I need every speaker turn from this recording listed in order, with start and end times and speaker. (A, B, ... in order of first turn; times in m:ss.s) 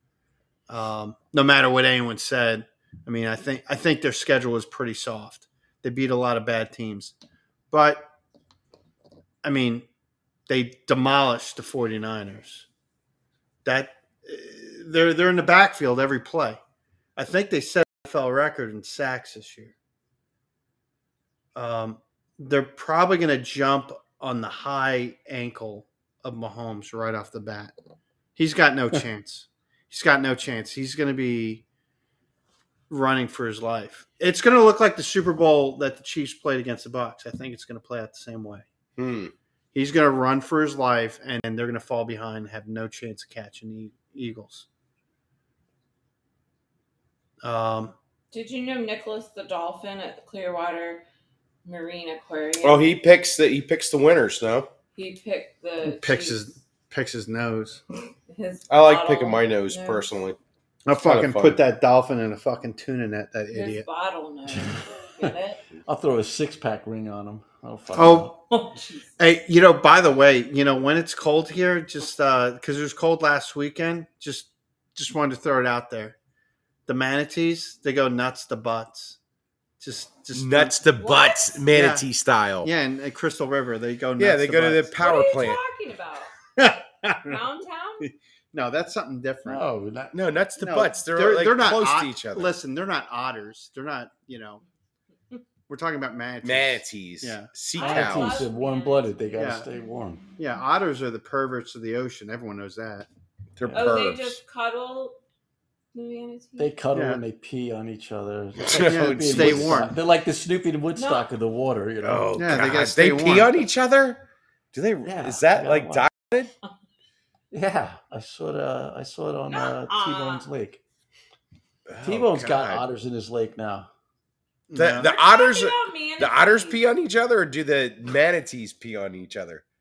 0:00.7-0:07.1 A
0:07.7-0:08.1 A
0:09.4-0:09.8 A
0:10.5-0:12.7 A
0:13.6-0:16.6 A
0:17.2-0:19.7 A
0:21.5-0:27.7 A
0:28.4-0:31.6 A
0:32.9-0:38.6 A
0:39.0-0:39.3 B
0:39.7-0:44.6 A
0:47.4-0:47.9 A
0:48.3-0:51.0 C
0:51.6-0:53.0 C
0:52.6-0:54.7 B
0:54.9-0:56.6 C
0:55.8-0:57.8 A
0:58.3-1:00.1 C
0:58.7-1:00.4 B
1:00.8-1:03.8 A
1:00.9-1:01.6 B
1:03.5-1:05.7 C
1:04.5-1:05.3 D
1:05.8-1:08.3 D
1:07.9-1:08.4 A
1:08.5-1:09.1 C
1:09.2-1:16.2 A
1:16.9-1:19.2 A
1:19.8-1:20.7 A
1:20.3-1:22.7 B
1:21.0-1:21.6 C
1:21.7-1:22.0 A
1:22.6-1:24.9 A
1:24.2-1:25.6 B
1:25.0-1:26.4 C
1:26.6-1:27.4 A
1:27.2-1:28.1 C
1:28.0-1:29.6 A
1:29.4-1:30.1 D
1:30.1-1:32.5 B
1:30.6-1:34.6 A
1:35.7-1:37.5 A
1:36.4-1:38.5 B
1:37.7-1:39.3 C
1:37.8-1:40.2 D
1:39.4-1:39.6 A
1:40.4-1:43.1 A
1:43.6-1:44.4 B
1:43.7-1:45.2 C
1:45.9-1:46.7 C
1:46.6-1:52.3 D
1:46.9-1:47.2 A
1:48.6-1:49.9 B
1:48.8-1:49.9 A
1:50.9-1:51.3 C
1:52.0-1:56.5 B
1:52.4-1:53.7 A
1:55.0-1:56.1 D
1:57.5-2:00.8 D
1:59.5-2:00.4 C
2:01.9-2:02.8 B
2:02.0-2:03.9 D
2:04.7-2:05.1 A
2:04.7-2:09.6 B
2:05.0-2:06.8 C